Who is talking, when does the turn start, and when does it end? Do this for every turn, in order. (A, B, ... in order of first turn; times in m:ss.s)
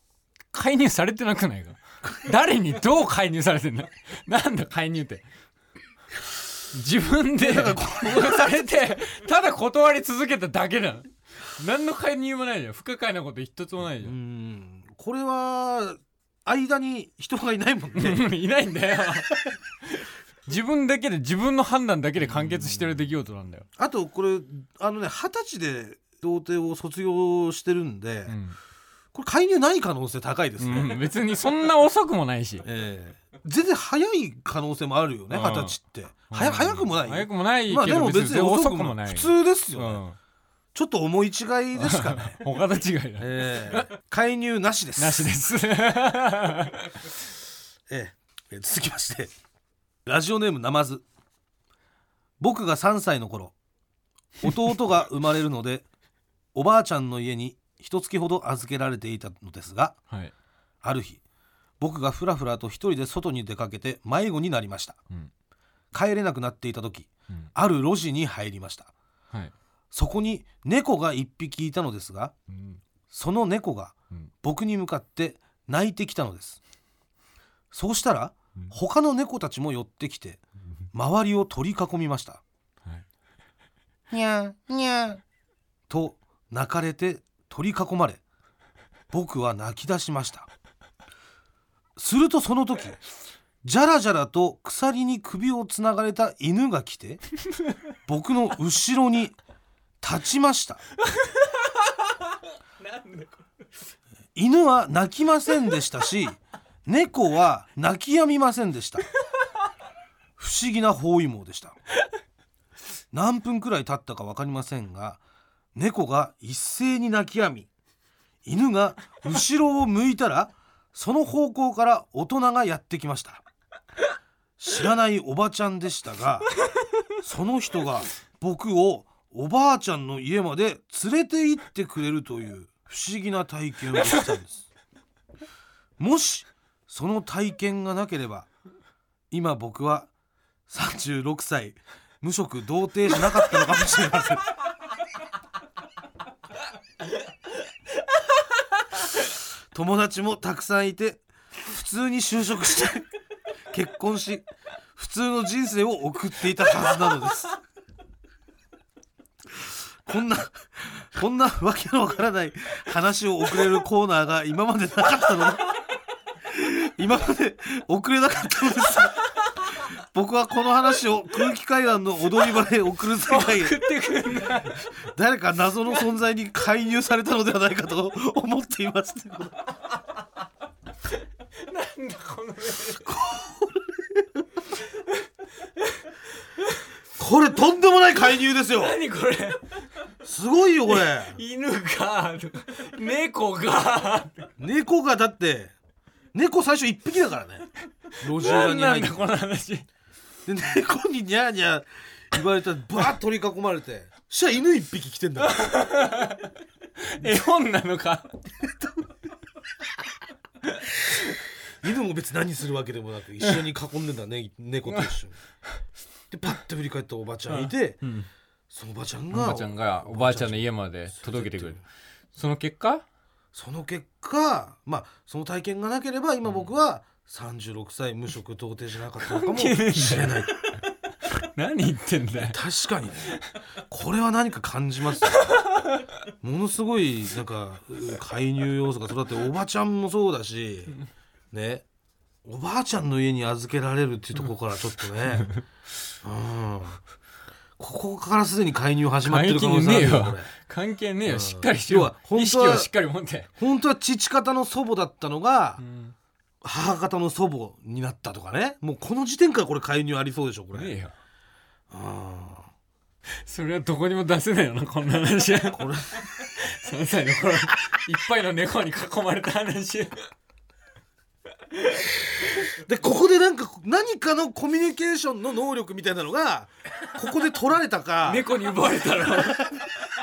0:00.5-0:05.2 A
0:06.7-0:14.2 A
0:07.4-0:08.6 B
0:14.0-0:18.3 B
0:18.0-0:23.7 A
0:22.2-0:23.0 B
0:23.8-0:28.4 B
0:28.3-0:28.6 A
0:29.1-0:31.0 B
0:30.6-0:32.6 A
0:32.6-0:40.0 B
0:35.3-0:35.8 A
0:36.3-0:40.2 A
0:40.8-0:42.4 B
0:41.8-0:43.9 A
0:43.2-0:45.4 B
0:45.0-0:47.1 A
0:47.9-0:49.3 B
0:50.1-0:51.0 B
0:52.4-0:53.5 B
0:54.4-0:55.9 B
0:56.5-1:00.0 B
1:00.8-1:01.2 B
1:01.8-1:05.0 B
1:05.9-1:08.9 B
1:09.9-1:12.3 B
1:12.5-1:12.8 A
1:13.1-1:16.6 B
1:17.7-1:22.4 B
1:24.1-1:25.2 B
1:25.9-1:28.2 B
1:29.1-1:30.5 B
1:32.0-1:33.0 B
1:33.6-1:37.2 B
1:38.1-1:39.4 B
1:40.0-1:40.8 B
1:41.1-1:41.8 A
1:42.8-1:43.3 A
1:44.4-1:49.1 B
1:50.4-1:51.8 B
1:53.1-1:55.2 B
1:55.8-1:57.7 B
1:58.4-2:03.4 B
2:04.6-2:06.5 B
2:07.2-2:14.7 B
2:16.0-2:18.5 B
2:19.3-2:20.1 B
2:20.7-2:24.4 B
2:29.2-2:33.1 B
2:33.7-2:37.6 B
2:39.5-2:45.6 B
2:46.4-2:53.8 B
2:53.3-2:54.9 A
2:54.9-2:59.6 B
3:01.6-3:03.0 A
3:02.8-3:04.4 B
3:07.2-3:09.0 B
3:08.8-3:09.8 A
3:10.2-3:11.4 B
3:10.9-3:14.5 A
3:14.6-3:15.7 B
3:16.3-3:17.7 B
3:18.2-3:19.3 B
3:18.3-3:19.9 A
3:20.5-3:25.8 B
3:25.5-3:28.4 A
3:31.8-3:35.4 B
3:36.3-3:38.0 B
3:37.5-3:38.3 A
3:38.7-3:41.8 B
3:39.3-3:41.8 A
3:42.3-3:43.0 A
3:43.5-3:50.5 B
3:49.2-3:50.7 A
3:51.2-3:52.6 A
3:52.5-3:53.4 B
3:53.9-3:55.6 B
3:55.3-3:56.1 A
3:56.4-4:01.0 B
4:01.5-4:01.8 B
4:02.4-4:05.5 B
4:06.2-4:07.0 B
4:07.8-4:10.5 B
4:09.2-4:13.5 A
4:11.3-4:12.9 B
4:13.6-4:15.8 B
4:15.8-4:16.1 A
4:16.6-4:20.9 B
4:20.7-4:21.1 A
4:21.9-4:22.7 B
4:23.4-4:30.3 A
4:25.7-4:26.3 B
4:31.8-4:32.1 A
4:32.4-4:38.5 B
4:38.2-4:39.8 A
4:39.3-4:39.9 B